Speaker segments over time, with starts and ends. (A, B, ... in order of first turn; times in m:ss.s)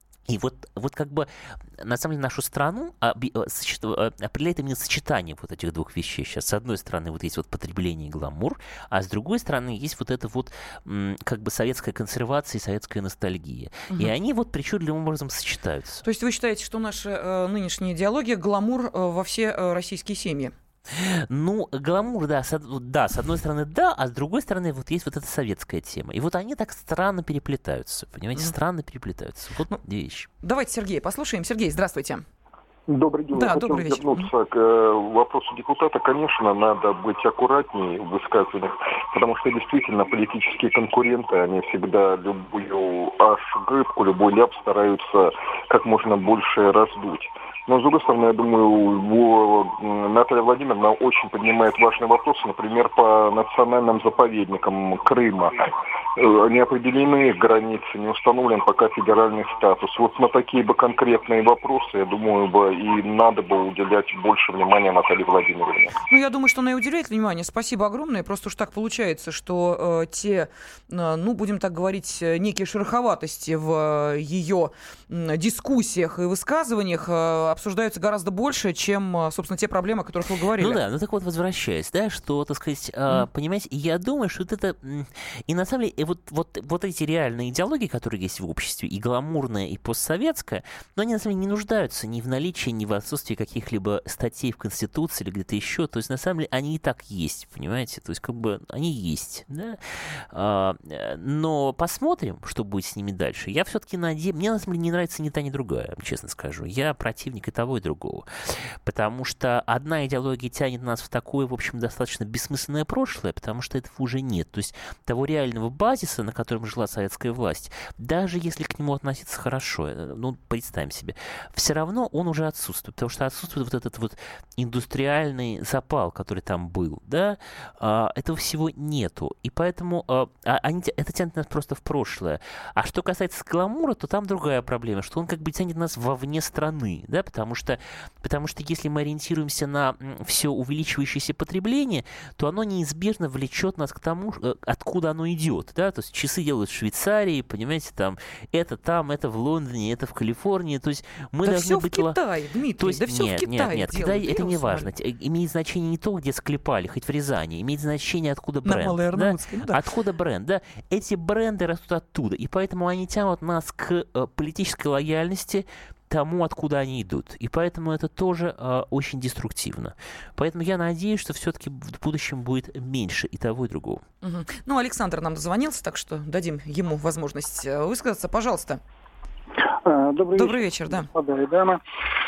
0:00.3-0:16.0 A
0:16.0-0:20.5 B
0:20.9-0:30.3 A
0:30.4-0:32.2 B
0:32.9-0:55.6 C
0:33.3-0:34.3 B
0:56.2-1:06.0 C
1:06.1-1:20.8 B
1:20.6-1:48.3 A
1:48.8-2:32.2 A
2:31.4-2:34.9 B
2:32.8-2:54.0 A
2:38.6-2:39.8 B
2:54.2-2:58.8 B
2:59.8-3:01.8 D
3:00.4-3:01.1 B